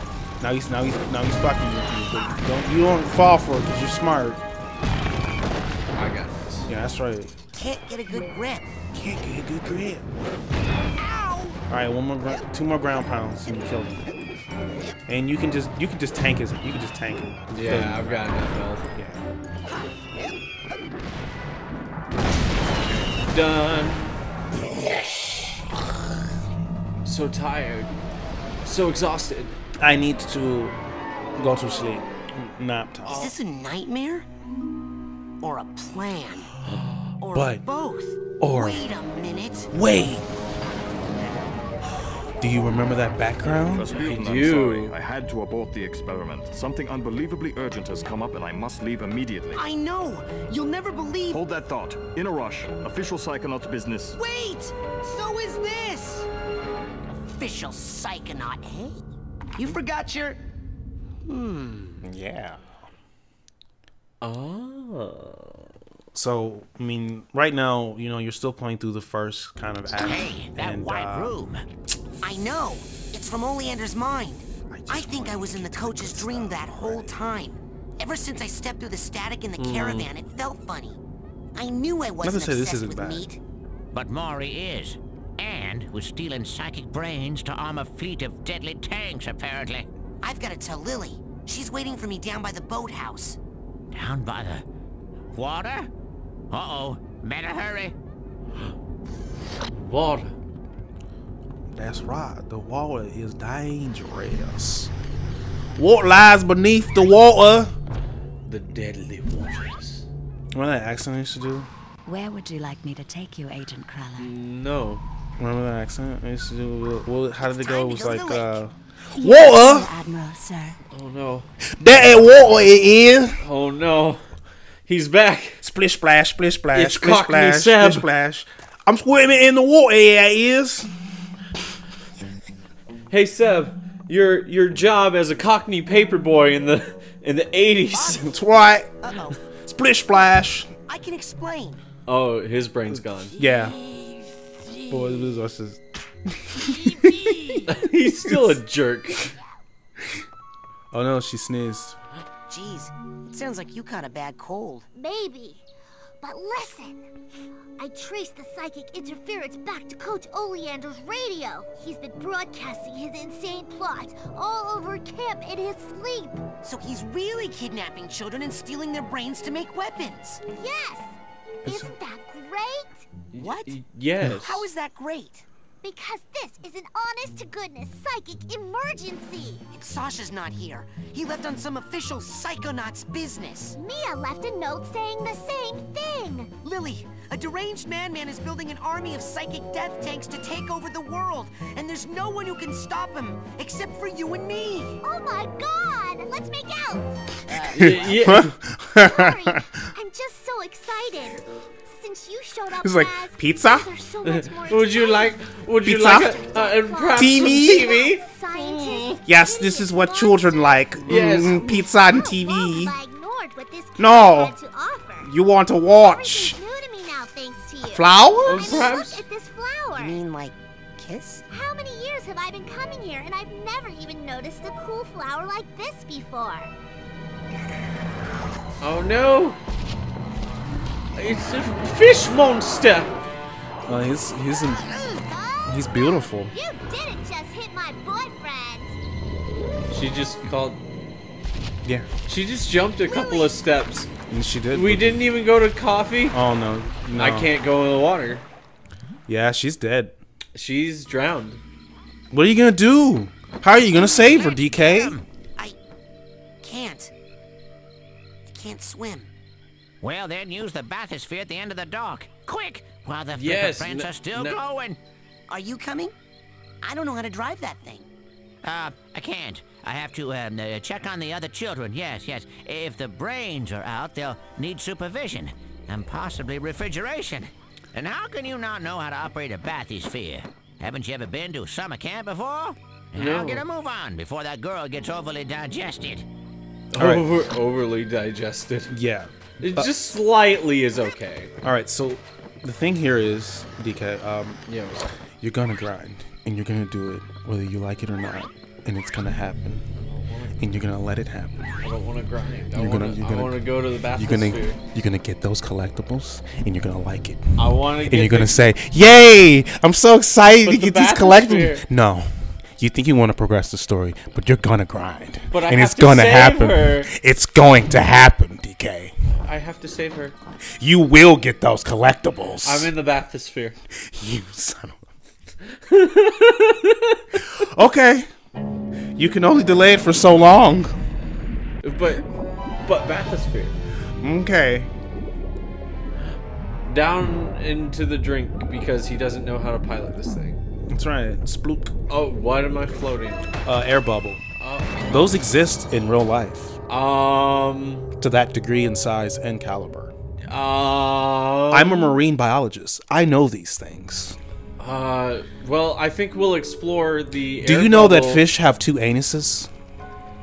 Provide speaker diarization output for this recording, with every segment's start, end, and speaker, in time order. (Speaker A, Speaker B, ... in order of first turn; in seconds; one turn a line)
Speaker A: 0.4-4.4
Speaker B: 5.9-6.7
Speaker A: 6.7-7.3
Speaker C: 7.5-8.7
Speaker A: 8.9-10.1
Speaker C: 11.0-11.6
Speaker A: 11.7-14.1
Speaker A: 15.1-18.3
Speaker B: 17.5-18.9
Speaker A: 18.9-19.2
Speaker B: 22.8-24.2
Speaker B: 27.0-27.9
Speaker B: 28.6-29.6
Speaker A: 29.8-30.8
Speaker A: 31.4-33.3
Speaker B: 33.0-33.3
Speaker C: 33.0-34.3
Speaker C: 35.4-36.5
Speaker C: 37.2-39.7
Speaker A: 37.3-37.6
Speaker A: 38.4-38.8
Speaker A: 39.7-40.2
Speaker A: 42.4-44.2
Speaker D: 43.4-49.6
Speaker B: 43.9-44.9
Speaker C: 49.5-51.4
Speaker D: 51.3-54.2
Speaker C: 54.1-56.3
Speaker C: 57.3-59.0
Speaker C: 59.5-60.4
Speaker C: 61.3-62.0
Speaker A: 62.0-62.8
Speaker B: 64.2-65.7
Speaker A: 66.1-71.3
Speaker E: 70.0-71.6
Speaker C: 72.2-81.0
Speaker A: 74.7-77.2
Speaker B: 79.6-80.1
Speaker C: 81.5-83.4
Speaker A: 82.2-83.3
Speaker E: 83.9-89.9
Speaker C: 90.2-93.4
Speaker E: 93.9-94.6
Speaker E: 95.3-95.9
Speaker E: 96.5-97.9
Speaker B: 99.7-100.3
Speaker A: 101.7-104.9
Speaker A: 105.8-107.7
Speaker B: 108.5-110.1
Speaker A: 110.5-111.7
Speaker F: 112.0-114.3
Speaker B: 114.2-115.0
Speaker A: 115.4-119.9
Speaker C: 117.4-118.7
Speaker F: 119.1-120.8
Speaker B: 120.9-121.5
Speaker A: 121.6-123.4
Speaker B: 123.4-124.3
Speaker B: 124.8-125.6
Speaker A: 125.6-130.9
Speaker B: 126.7-128.1
Speaker B: 133.1-138.2
Speaker C: 137.9-138.4
Speaker A: 138.2-138.9
Speaker C: 139.0-139.4
Speaker A: 139.6-140.7
Speaker C: 140.9-141.8
Speaker B: 142.1-143.4
Speaker A: 143.4-143.8
Speaker C: 143.4-144.1
Speaker A: 144.9-147.6
Speaker B: 147.6-149.3
Speaker A: 148.2-148.6
Speaker A: 150.9-152.0
Speaker C: 152.5-154.9
Speaker G: 154.9-155.6
Speaker G: 156.2-157.1
Speaker G: 157.8-166.4
Speaker C: 166.6-170.4
Speaker G: 170.5-173.1
Speaker A: 171.6-171.9
Speaker B: 173.3-174.7
Speaker C: 173.3-175.4
Speaker G: 175.8-179.6
Speaker C: 179.7-183.8
Speaker G: 183.8-186.5
Speaker C: 186.6-195.0
Speaker G: 195.0-197.8
Speaker C: 197.5-198.4
Speaker B: 197.8-198.5
Speaker A: 197.8-199.8
Speaker G: 199.0-205.5
Speaker A: 202.7-203.9
Speaker B: 204.2-209.2
Speaker A: 205.8-206.4
Speaker G: 206.3-215.3
Speaker A: 207.1-207.9
Speaker A: 209.2-212.9
Speaker B: 211.1-211.7
Speaker A: 214.0-214.5
Speaker A: 215.2-216.6
Speaker G: 215.9-220.2
Speaker A: 217.8-218.9
Speaker B: 218.4-219.2
Speaker C: 219.9-221.4
Speaker G: 221.5-226.7
Speaker B: 228.8-229.6
Speaker B: 231.1-233.1
Speaker A: 233.9-234.9
Speaker G: 235.0-239.0
Speaker A: 235.6-236.5
Speaker B: 239.9-240.8
Speaker A: 241.8-242.1
Speaker B: 242.3-244.1
Speaker G: 243.0-243.6
Speaker A: 244.3-245.2
Speaker B: 244.7-246.4
Speaker A: 246.3-247.5
Speaker B: 247.1-248.5
Speaker A: 249.3-250.2
Speaker B: 250.5-251.6
Speaker A: 252.3-255.1
Speaker C: 254.0-255.8
Speaker C: 256.6-257.1
Speaker C: 258.5-259.3
Speaker E: 260.0-265.0
Speaker B: 263.3-264.6
Speaker C: 265.5-266.1
Speaker C: 266.8-268.1
Speaker E: 268.6-286.2
Speaker B: 283.1-283.6
Speaker B: 286.9-289.0
Speaker A: 286.9-287.3
Speaker A: 288.9-289.9
Speaker B: 289.6-291.5
Speaker A: 291.6-294.6
Speaker B: 294.7-295.1
Speaker A: 295.4-299.9
Speaker B: 300.0-300.6
Speaker A: 300.6-301.8
Speaker B: 301.8-304.8
Speaker A: 302.7-319.1
Speaker B: 307.6-308.6
Speaker B: 310.6-311.9
Speaker B: 315.5-317.1
Speaker B: 319.4-320.4
Speaker A: 320.7-322.9
Speaker B: 322.6-323.8
Speaker A: 323.9-325.1
Speaker B: 325.6-327.4
Speaker A: 327.4-328.3
Speaker A: 329.1-330.9
Speaker B: 331.8-333.7
Speaker A: 334.2-334.9
Speaker B: 336.9-340.6
Speaker A: 340.9-341.9
Speaker B: 342.1-343.5
Speaker A: 343.6-344.4
Speaker B: 344.6-345.4
Speaker A: 345.1-346.8
Speaker B: 346.9-348.1
Speaker A: 348.2-350.1
Speaker B: 350.4-352.2
Speaker A: 351.7-354.4
Speaker B: 354.8-358.5
Speaker A: 357.6-359.7